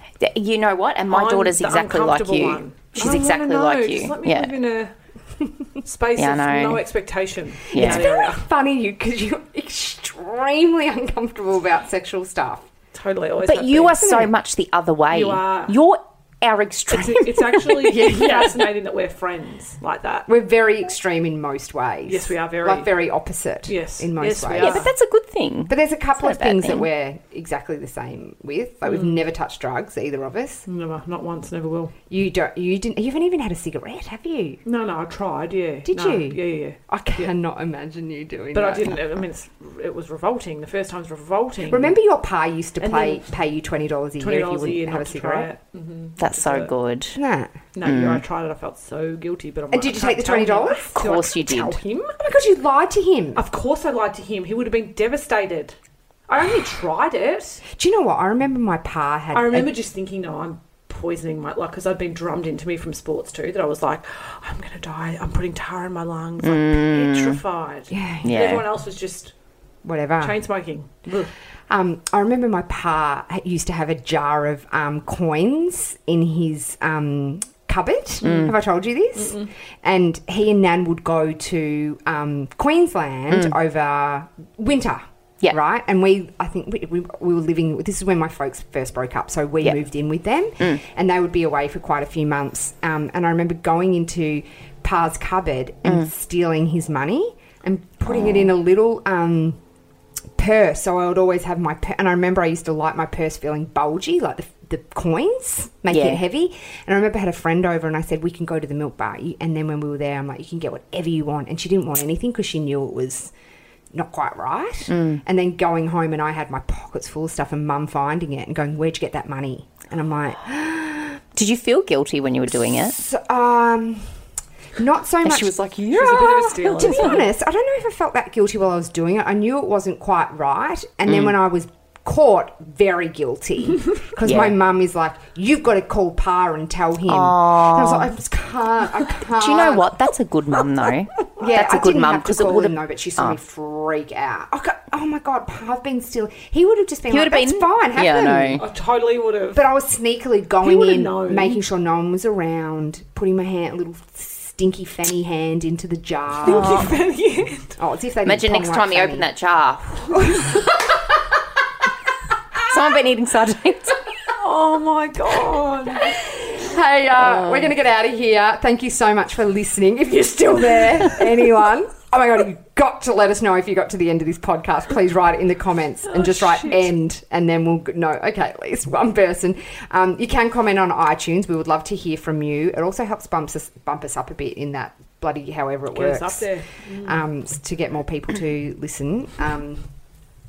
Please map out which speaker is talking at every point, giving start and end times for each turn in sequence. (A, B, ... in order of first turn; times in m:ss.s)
0:00.2-0:04.5 A
0:01.1-0:04.9 B
0:05.8-0:08.5 B
0:06.2-0:06.8 A
0:07.7-0:12.7 C
0:07.7-0:08.1 A
0:12.9-0:14.1 B
0:13.4-0:17.7 A
0:14.0-0:14.3 C
0:15.1-0:15.8 B
0:16.9-0:20.3 B
0:17.7-0:18.7 C
0:20.3-0:24.9 C
0:22.1-0:22.9 B
0:23.7-0:24.9 B
0:24.5-0:26.9 A
0:25.7-0:30.7 C
0:28.9-0:29.1 B
0:30.7-0:31.9 B
0:32.1-0:34.6 C
0:34.6-0:37.3 B
0:35.9-0:39.0 C
0:38.5-0:42.0 B
0:41.7-0:45.5 C
0:42.8-0:43.2 B
0:44.2-0:46.7 B
0:46.2-0:47.2 A
0:47.2-0:47.5 C
0:47.7-0:52.2 B
0:47.8-0:48.2 A
0:49.7-0:51.0 C
0:51.0-0:51.8 A
0:52.2-0:53.4 C
0:53.4-0:55.8 B
0:56.3-0:57.6 B
0:57.7-0:59.7 C
0:59.3-1:09.3 B
1:06.4-1:07.4 A
1:07.9-1:08.3 C
1:08.2-1:08.6 A
1:09.8-1:10.4 C
1:10.2-1:11.3 B
1:11.7-1:39.6 C
1:18.2-1:18.6 A
1:19.2-1:19.5 B
1:38.1-1:38.5 A
1:40.4-1:53.3 C
1:45.9-1:46.2 A
1:53.9-2:01.2 C
1:54.9-1:55.2 A
2:01.4-2:03.0 A
2:02.7-2:04.0 C
2:04.8-2:19.9 C
2:05.2-2:07.2 A
2:05.9-2:07.3 B
2:11.1-2:11.4 A
2:14.2-2:14.6 A
2:17.1-2:18.1 A
2:19.2-2:23.4 A
2:21.4-2:28.6 C
2:27.1-2:28.6 A
2:28.6-2:29.6 B
2:29.6-2:36.8 C
2:30.6-2:31.6 B
2:36.4-2:37.8 B
2:36.4-2:36.9 A
2:37.8-2:39.3 C
2:38.2-2:40.4 A
2:40.1-2:41.0 C
2:42.6-2:44.0 A
2:44.3-2:46.2 B
2:46.0-3:09.8 C
2:47.2-2:47.7 A
2:56.1-2:56.9 B
3:05.9-3:07.2 B